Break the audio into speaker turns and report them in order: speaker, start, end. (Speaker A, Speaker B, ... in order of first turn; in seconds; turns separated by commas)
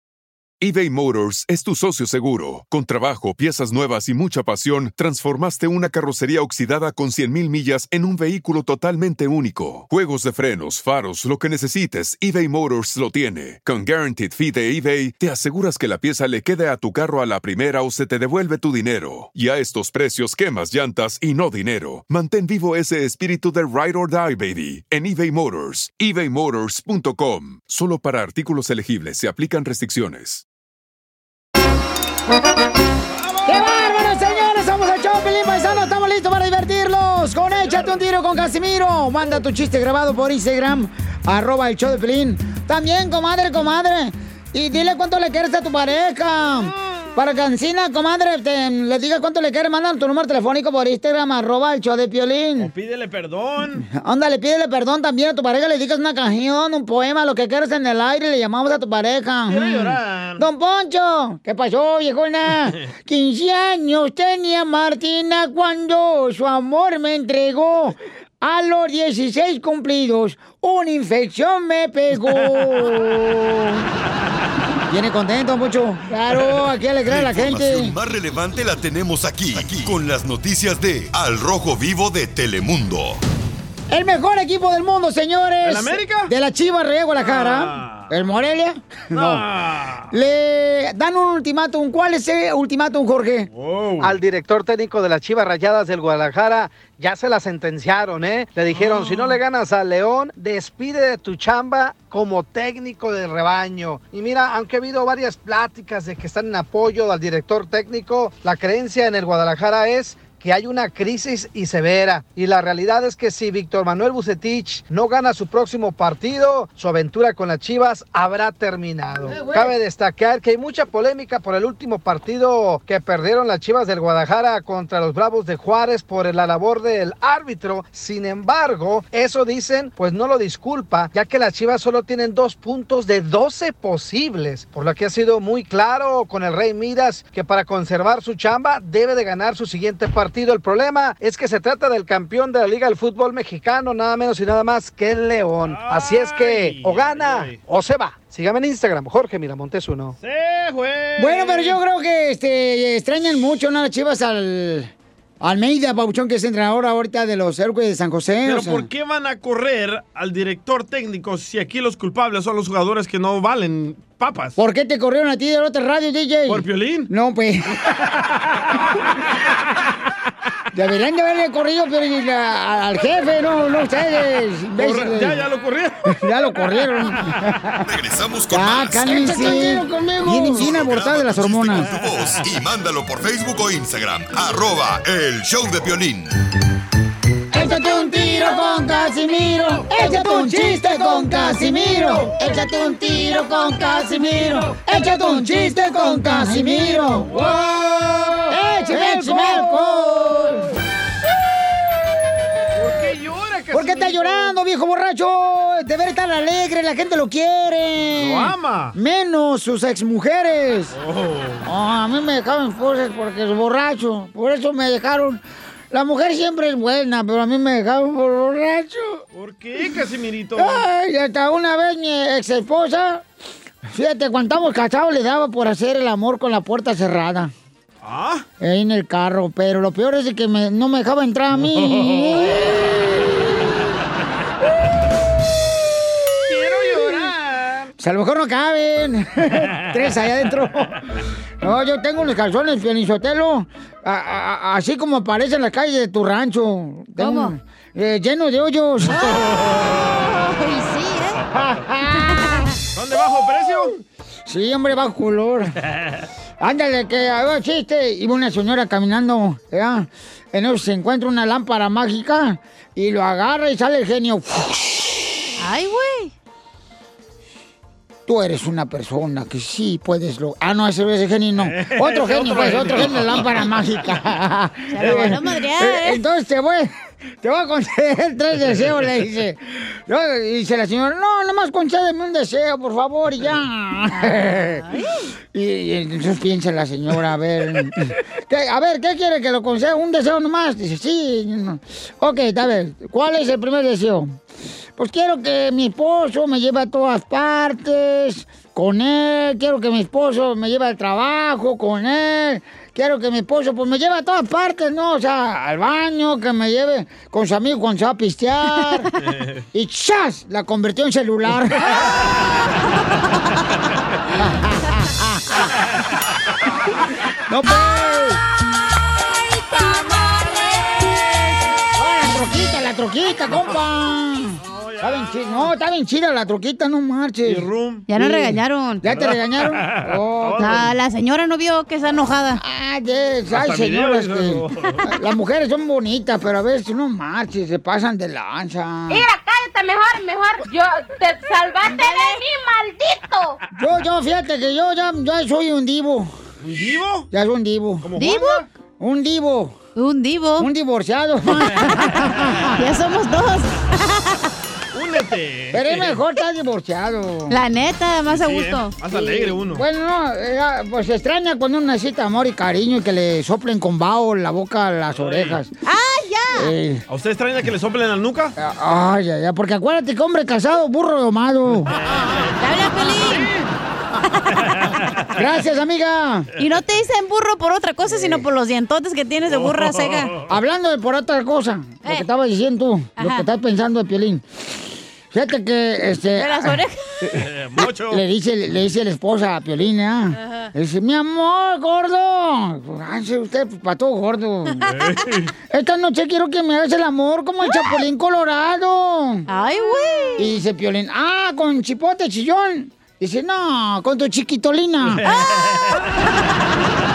Speaker A: 0.6-30.4, Speaker B: 33.1-33.9, Speaker C: 33.5-52.7, Speaker B: 37.6-37.9, Speaker B: 52.6-53.9, Speaker C: 53.8-73.9, Speaker B: 59.5-60.5, Speaker C: 74.9-78.0, Speaker D: 77.1-83.2, Speaker C: 83.9-89.5, Speaker B: 85.6-86.3, Speaker B: 87.2-88.1, Speaker B: 89.1-90.1, Speaker C: 90.1-93.5, Speaker B: 93.5-94.2, Speaker E: 94.0-150.2, Speaker B: 98.7-99.3, Speaker C: 119.2-119.7, Speaker B: 145.7-147.6, Speaker B: 150.2-151.8, Speaker C: 151.2-158.9, Speaker B: 158.4-164.6, Speaker C: 164.6-167.9, Speaker B: 166.5-167.1, Speaker C: 170.7-175.4, Speaker B: 174.8-176.2, Speaker C: 176.1-177.8, Speaker D: 177.8-179.7, Speaker C: 178.5-181.9, Speaker D: 180.5-186.3, Speaker B: 181.8-182.4, Speaker C: 187.5-200.7, Speaker B: 194.4-195.0, Speaker B: 196.7-200.5, Speaker B: 202.8-204.6, Speaker C: 203.7-211.0, Speaker B: 208.2-208.9, Speaker B: 210.9-211.7, Speaker C: 211.6-219.2, Speaker B: 219.3-220.8, Speaker C: 220.6-223.2, Speaker C: 223.9-227.5, Speaker B: 228.0-228.4, Speaker C: 228.6-233.8, Speaker B: 231.6-232.6, Speaker B: 236.5-237.9, Speaker C: 238.0-241.0, Speaker C: 241.6-250.0, Speaker F: 247.2-247.6, Speaker F: 249.1-251.4, Speaker C: 251.5-252.7, Speaker F: 252.2-252.7, Speaker B: 252.9-253.9, Speaker C: 254.5-255.8, Speaker C: 256.6-265.2, Speaker F: 265.6-266.3, Speaker C: 268.3-276.9, Speaker B: 271.6-273.7, Speaker F: 274.9-276.2, Speaker B: 275.0-275.4, Speaker C: 277.4-284.8, Speaker F: 284.1-285.3, Speaker C: 285.5-294.4, Speaker C: 295.0-309.1, Speaker B: 309.2-309.6, Speaker C: 309.7-312.0, Speaker C: 314.4-315.7, Speaker C: 317.5-318.4, Speaker B: 319.8-321.6, Speaker C: 321.9-327.7, Speaker B: 324.6-325.7, Speaker B: 327.4-328.2, Speaker F: 328.1-329.1, Speaker C: 328.2-330.9, Speaker B: 329.1-330.9, Speaker F: 330.5-332.6, Speaker C: 332.6-339.3, Speaker B: 333.5-335.1, Speaker G: 339.1-343.6, Speaker F: 341.9-342.4, Speaker C: 343.8-346.3, Speaker B: 346.6-347.3, Speaker C: 347.3-348.1, Speaker B: 348.0-348.7, Speaker F: 348.2-348.6, Speaker C: 349.0-349.7, Speaker F: 350.0-350.7, Speaker C: 350.6-352.7, Speaker F: 352.8-354.5, Speaker B: 354.9-356.2, Speaker C: 355.7-357.6, Speaker F: 357.5-359.0, Speaker B: 358.3-359.9, Speaker C: 359.1-365.7, Speaker B: 365.1-365.6, Speaker F: 365.8-366.8, Speaker C: 366.6-367.0, Speaker B: 367.1-368.5, Speaker C: 368.6-371.9, Speaker B: 371.9-372.5, Speaker F: 372.6-373.5, Speaker B: 373.1-373.7, Speaker B: 374.7-375.2, Speaker C: 375.3-376.5, Speaker F: 376.6-380.4, Speaker B: 378.1-378.4, Speaker B: 379.4-380.4, Speaker C: 380.5-384.7, Speaker F: 383.2-383.5, Speaker C: 385.3-386.8, Speaker F: 386.4-387.4, Speaker B: 387.3-388.2, Speaker C: 388.1-394.9, Speaker F: 390.3-390.7, Speaker B: 394.8-395.5, Speaker C: 395.7-399.4, Speaker F: 399.5-400.6, Speaker C: 400.4-405.2, Speaker B: 405.1-406.0, Speaker F: 405.2-405.6